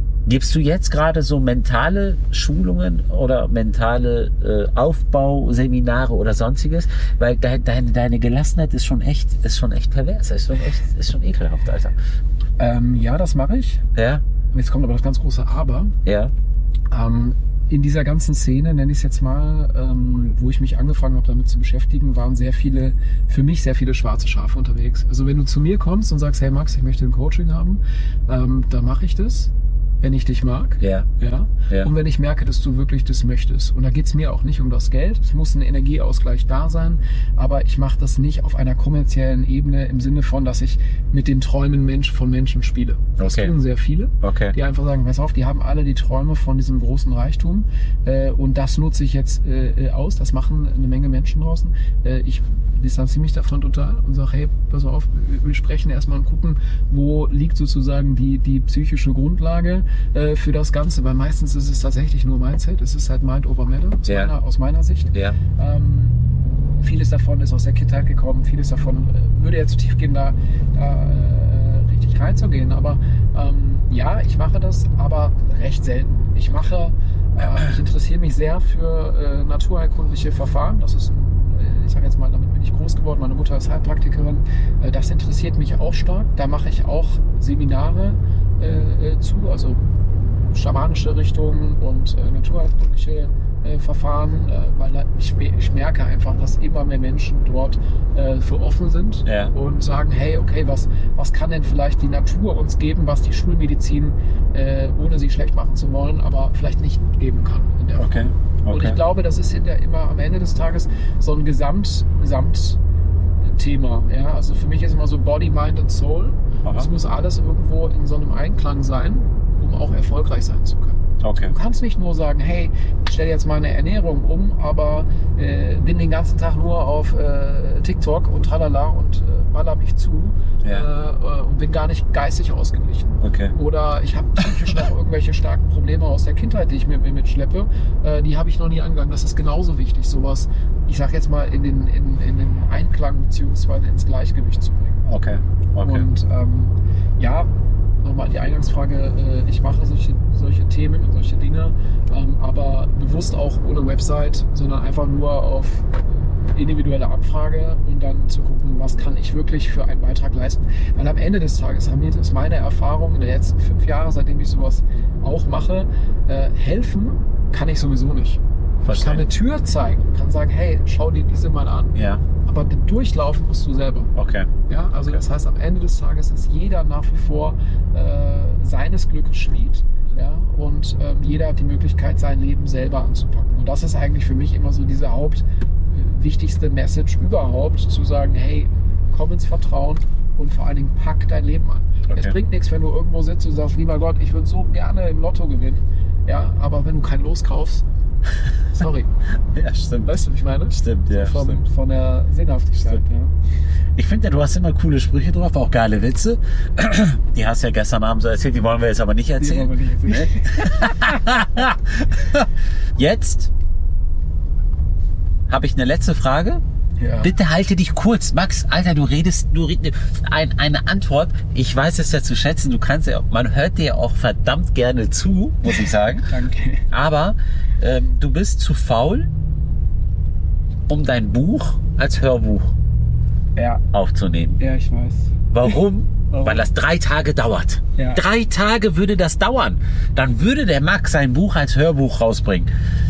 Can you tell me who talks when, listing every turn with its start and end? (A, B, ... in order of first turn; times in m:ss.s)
0:00.2-0:12.0 A
0:12.6-0:13.8 B
0:13.9-0:14.2 A
0:14.5-0:15.9 B
0:16.0-0:16.3 A
0:16.9-1:06.2 B
0:30.8-0:31.1 A
0:43.2-0:43.5 A
0:44.2-0:44.5 A
1:04.0-1:04.3 A
1:05.1-1:05.4 A
1:06.8-1:29.8 B
1:30.5-1:52.8 B
1:39.2-1:39.5 A
1:48.0-1:49.0 A
1:53.4-2:25.0 B
1:56.6-1:56.9 A
2:01.2-2:01.5 A
2:13.2-2:13.5 A
2:25.0-2:26.1 A
2:25.8-2:27.5 B
2:28.0-2:54.1 B
2:48.8-2:49.2 A
2:51.9-2:52.2 A
2:54.1-2:54.5 A
2:54.7-3:17.8 B
3:12.1-3:12.4 A
3:18.7-3:19.1 B
3:19.5-3:21.6 A
3:20.0-3:23.3 B
3:24.0-3:33.5 A
3:29.4-3:31.2 B
3:35.5-3:36.6 A
3:37.0-3:37.3 B
3:37.2-3:46.3 A
3:45.6-3:46.8 B
3:46.9-3:49.3 A
3:50.9-3:52.7 A
3:53.6-3:53.8 B
3:53.9-3:54.6 A
3:54.6-3:55.8 B
3:55.5-4:02.7 A
3:56.3-3:56.7 B
3:58.0-3:58.2 B